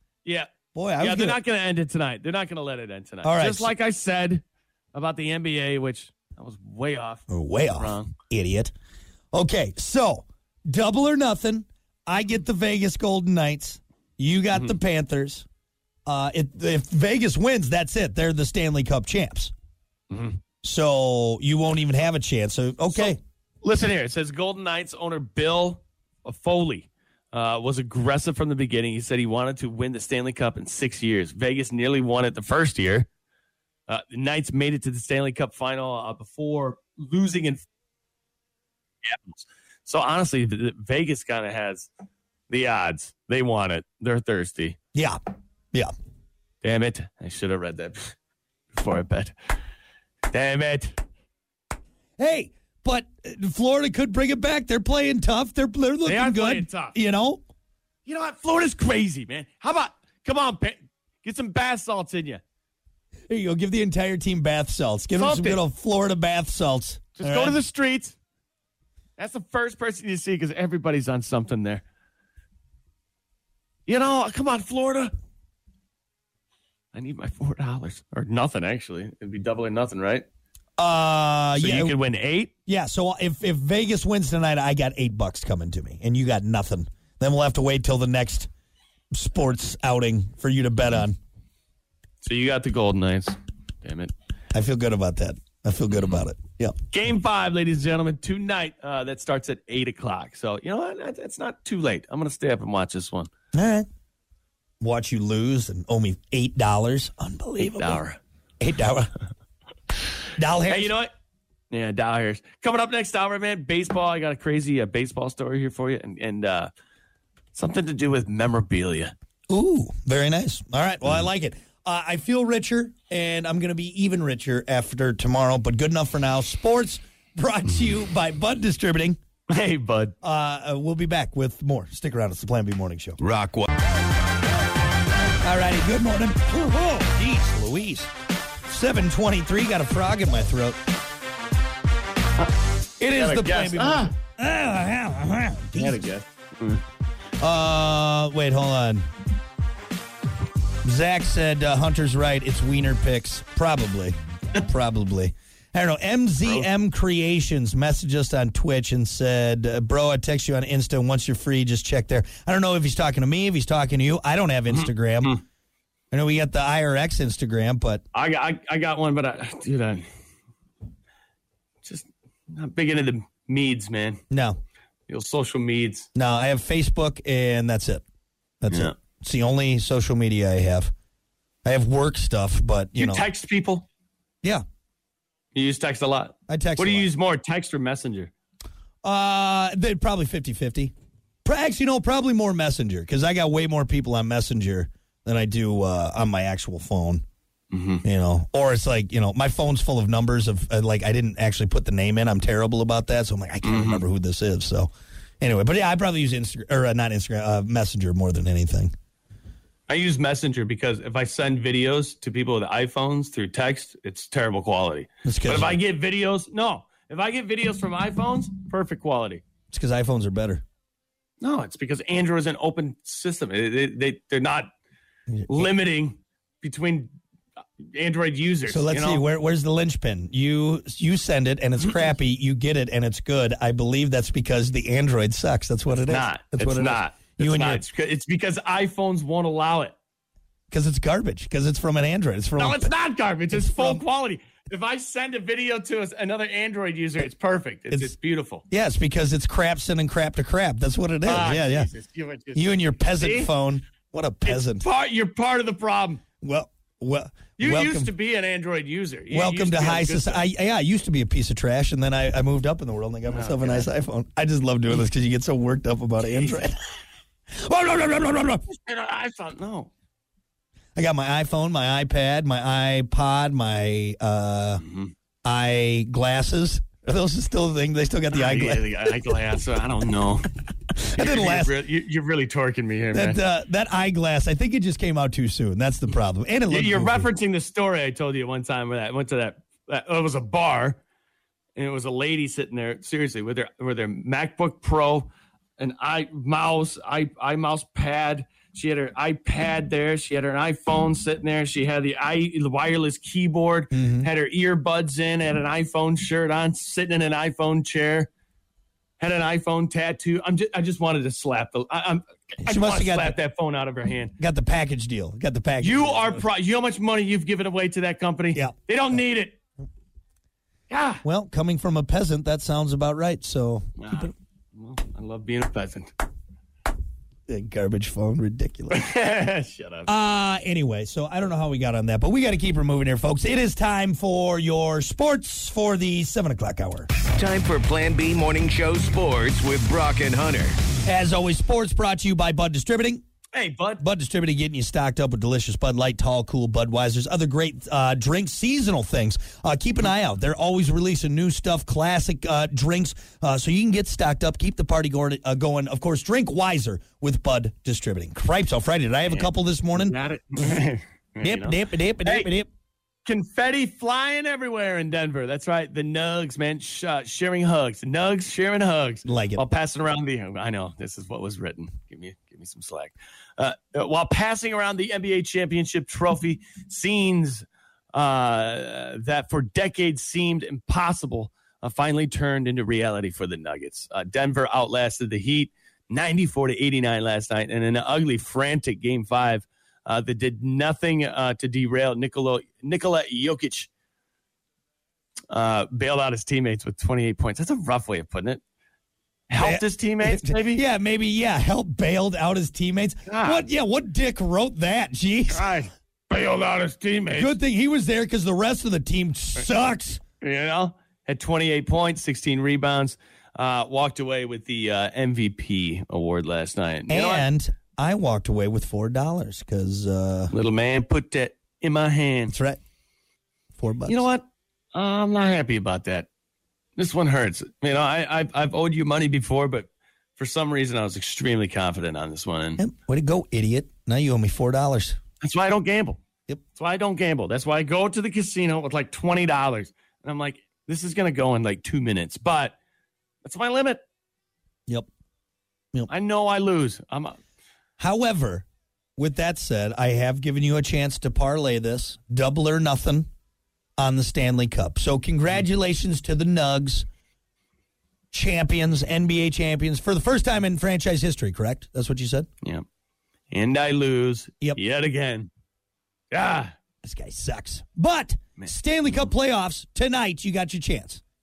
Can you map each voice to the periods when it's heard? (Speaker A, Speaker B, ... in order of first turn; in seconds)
Speaker A: 0.2-4.4, 4.9-8.2, 20.1-20.4, 22.9-33.1, 33.9-37.6, 39.0-41.9, 42.5-44.8, 46.6-48.1, 48.7-49.3, 50.3-51.0, 56.1-57.0, 58.1-62.4, 65.2-65.6, 67.2-68.2, 69.2-71.8, 73.9-75.1, 76.9-80.3, 81.6-82.5, 92.2-94.1, 96.9-103.3, 107.6-108.2, 110.7-111.1, 111.7-116.7, 117.5-119.1, 129.5-130.2, 143.1-144.1, 145.8-146.8, 168.1-170.1, 171.8-174.2, 175.1-176.1, 183.0-183.9, 185.6-188.3, 197.7-198.0, 203.6-204.0, 209.9-219.4, 221.4-224.7, 225.5-227.1, 227.8-229.2, 236.1-239.9, 242.6-248.7, 251.2-253.5, 254.4-256.2, 257.6-260.4, 263.3-263.9, 266.3-266.6, 268.7-269.9, 274.8-275.1, 278.3-280.5, 281.1-283.4, 286.7-291.0, 291.8-308.3, 309.2-314.4, 315.8-319.6, 320.9-321.2, 324.0-326.1, 328.9-330.1, 343.5-344.0, 359.3-362.5, 363.2-393.9, 395.5-398.6, 399.5-400.8, 403.3-403.7, 405.5-407.6, 410.4-417.5, 420.5-422.6, 424.1-426.3, 427.0-432.8, 435.4-436.2, 436.7-442.8, 443.4-444.0, 446.1-447.4, 463.5-465.5, 466.3-466.7
Speaker B: 0.7-1.4, 3.2-3.7, 7.3-8.7, 9.3-15.5, 16.1-19.5, 20.6-23.2, 44.9-45.2, 52.2-57.4, 63.3-67.6, 80.8-81.9, 82.7-88.5, 89.1-91.2, 94.5-96.8, 103.5-103.9, 104.8-108.0, 108.6-109.1, 110.4-110.9, 119.5-129.2, 130.2-133.2, 135.4-138.1, 138.7-140.8, 143.0-146.0, 147.4-149.1, 150.8-165.4, 166.1-168.0, 174.3-174.6, 176.2-178.0, 178.6-180.9, 181.7-183.3, 186.5-187.1, 189.0-190.9, 191.4-197.2, 198.0-204.9, 205.4-208.9, 215.2-215.8, 219.7-220.6, 225.3-225.7, 228.7-237.8, 240.7-242.9, 243.5-244.0, 248.7-251.9, 252.6-254.8, 256.4-258.1, 259.3-266.8, 267.5-268.6, 271.0-274.8, 275.4-279.1, 281.0-281.8, 283.1-287.3, 303.9-304.3, 312.6-313.4, 314.4-316.4, 321.2-324.3, 327.5-329.1, 330.1-337.1, 341.1-343.2, 344.0-360.2, 361.4-362.7, 369.2-369.6, 399.6-405.7, 407.3-410.2, 417.1-420.5, 422.5-422.8, 423.8-424.3, 432.8-435.2, 448.0-448.7, 449.2-453.3, 454.0-457.1, 458.3-462.5, 467.0-471.2
Speaker C: 133.2-133.7, 337.4-340.8